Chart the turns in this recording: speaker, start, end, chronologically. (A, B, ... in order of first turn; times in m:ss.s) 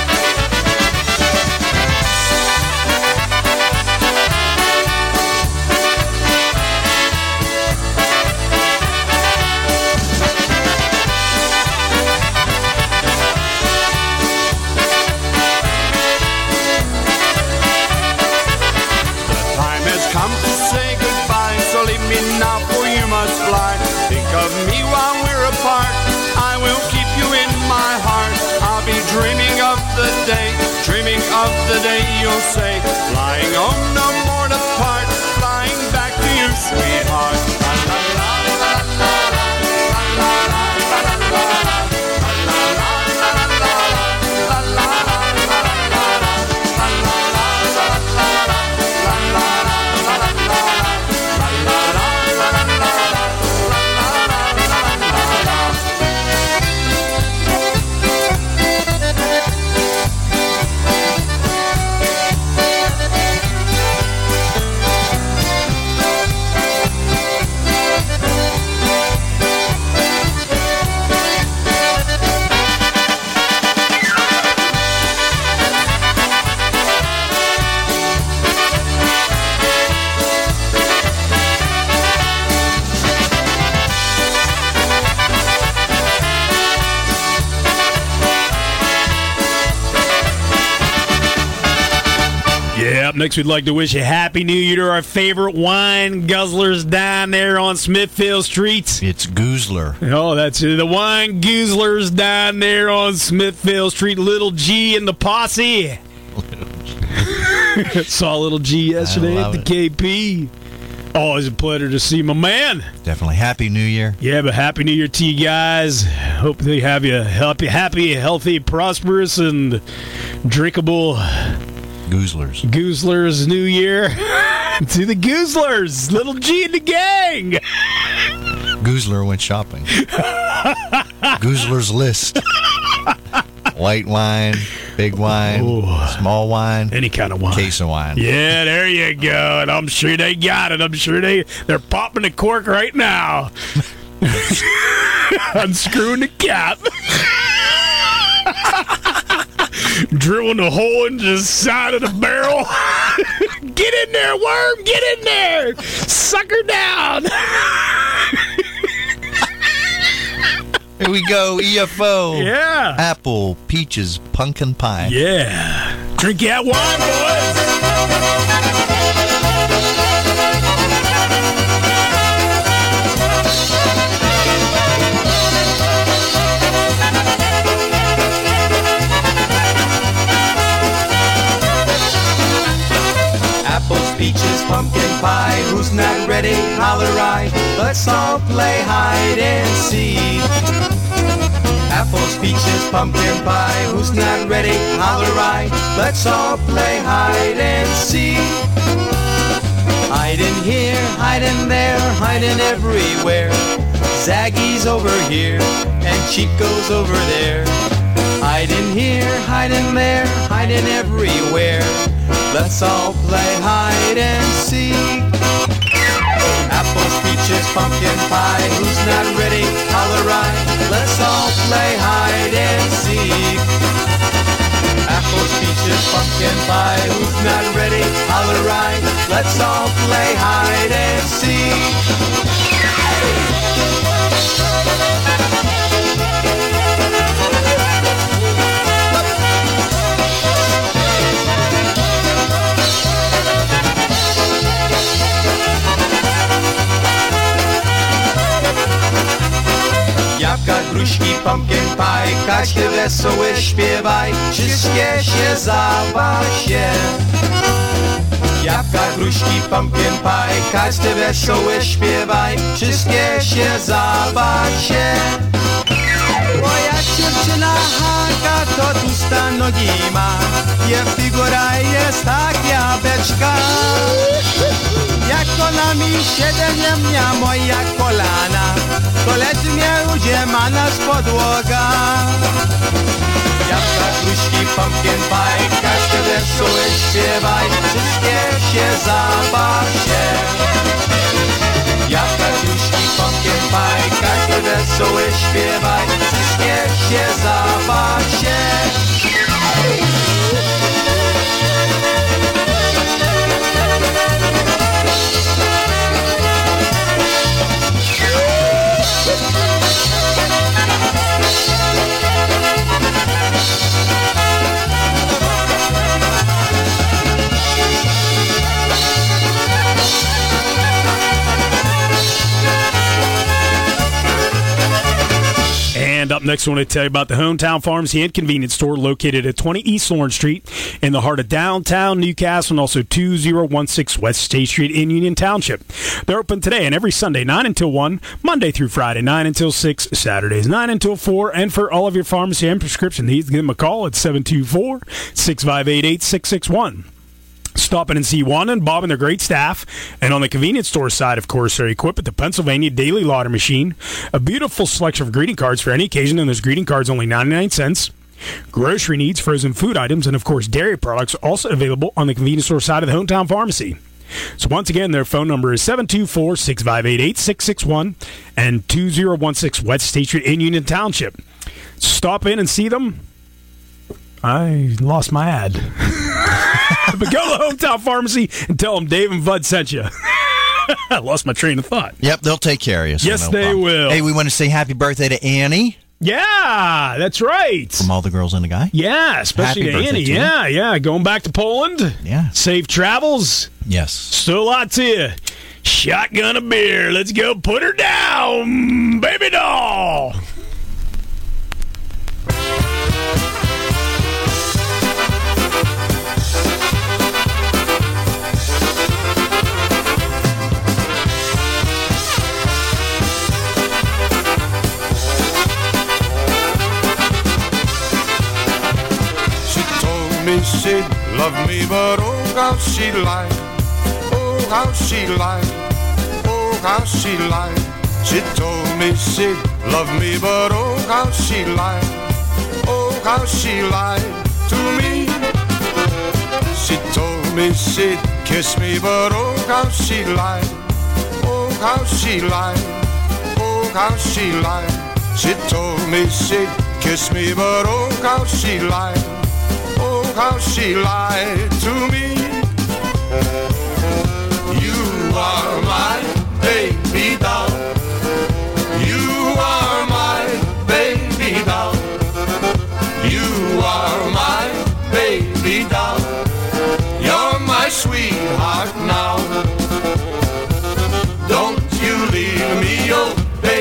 0:19.4-0:24.7 A
0:25.4-0:25.9 A
0:27.3-0:28.5 A
0:29.2-0:35.3 A
0:37.3-0:38.3 A
1:32.7-1:39.0 B
1:39.0-1:40.0 C
1:40.0-1:46.0 B
1:46.3-1:46.7 C
1:47.2-1:50.5 B
1:49.0-1:49.7 C
1:51.1-1:52.9 B
1:53.0-1:54.2 C
1:54.2-1:59.8 B
2:00.4-2:01.6 B
2:02.1-2:02.6 C
2:02.6-2:07.6 B
2:08.8-2:09.9 C
2:10.0-2:11.3 B
2:11.3-2:12.4 C
2:13.7-2:17.0 C
2:15.3-2:16.2 B
2:16.9-2:23.5 B
2:17.5-2:18.2 C
2:24.2-2:27.8 B
2:28.4-2:38.4 B
2:41.0-2:45.2 C
2:42.3-2:43.0 B
2:45.0-2:47.7 B
3:03.6-3:10.5 D
3:11.9-3:18.7 D
3:20.1-3:27.8 D
3:28.4-3:35.3 D
3:36.7-3:43.7 D
3:45.0-3:52.0 D
4:10.3-4:17.2 D
4:18.6-4:25.5 D
4:26.5-4:34.4 D
4:35.2-4:42.4 D
4:43.6-4:50.7 D
4:52.0-4:59.0 D
5:25.9-5:47.1 B
5:47.8-5:58.1 B
5:58.7-6:04.0 B
6:04.6-6:11.4 B
6:12.0-6:13.2 B
6:14.4-6:22.2 B
6:22.2-6:26.0 C
6:23.2-6:24.2 B
6:26.2-6:28.1 B
6:28.0-6:28.9 C
6:28.9-6:33.7 B
6:29.6-6:30.5 C
6:32.2-6:32.5 C
6:33.9-6:34.3 C
6:34.3-6:40.4 B
6:59.7-7:03.5 E
7:04.3-7:05.7 E
7:06.4-7:12.0 E
7:12.9-7:15.4 E
7:16.8-7:20.7 E
7:21.4-7:22.9 E
7:23.6-7:29.2 E
7:30.0-7:32.4 E
7:40.5-7:41.6 A